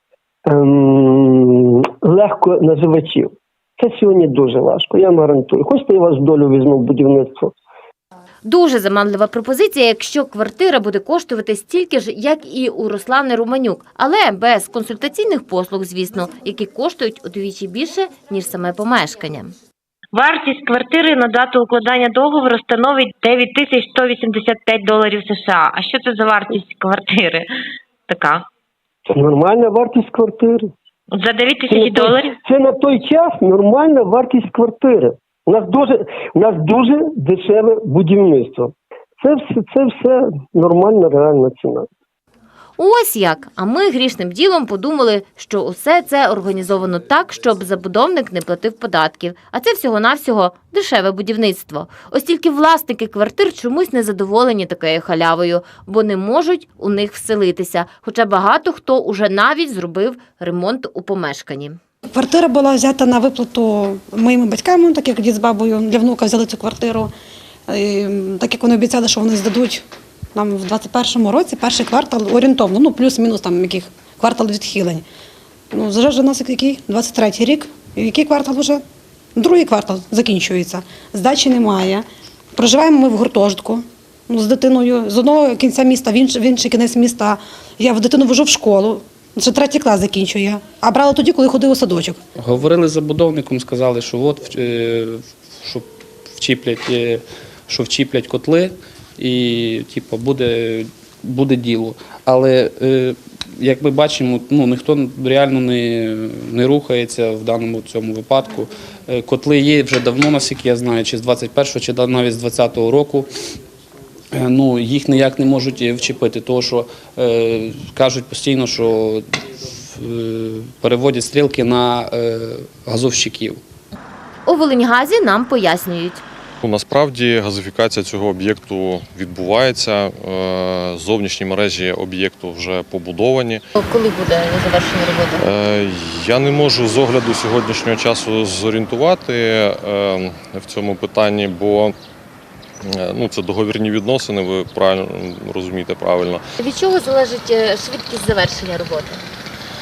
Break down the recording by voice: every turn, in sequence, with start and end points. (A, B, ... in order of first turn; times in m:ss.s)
0:00.5-0:07.5 A
0:08.4-0:19.5 B
0:20.1-0:27.5 C
0:28.1-0:28.4 C
0:29.1-0:30.7 A
0:31.1-0:32.4 C
0:31.7-0:41.9 A
0:42.8-1:01.8 B
1:02.1-1:07.1 D
1:07.7-1:09.8 D
1:10.3-1:15.0 D
1:15.7-1:18.8 D
1:19.4-1:22.0 D
1:22.6-1:32.2 D
1:32.4-1:53.3 E
1:54.3-2:03.6 E
2:04.4-2:06.2 B
2:06.6-2:13.6 F
2:13.8-2:15.4 B
2:15.4-2:21.9 F
2:22.8-2:26.4 F
2:26.6-2:29.2 B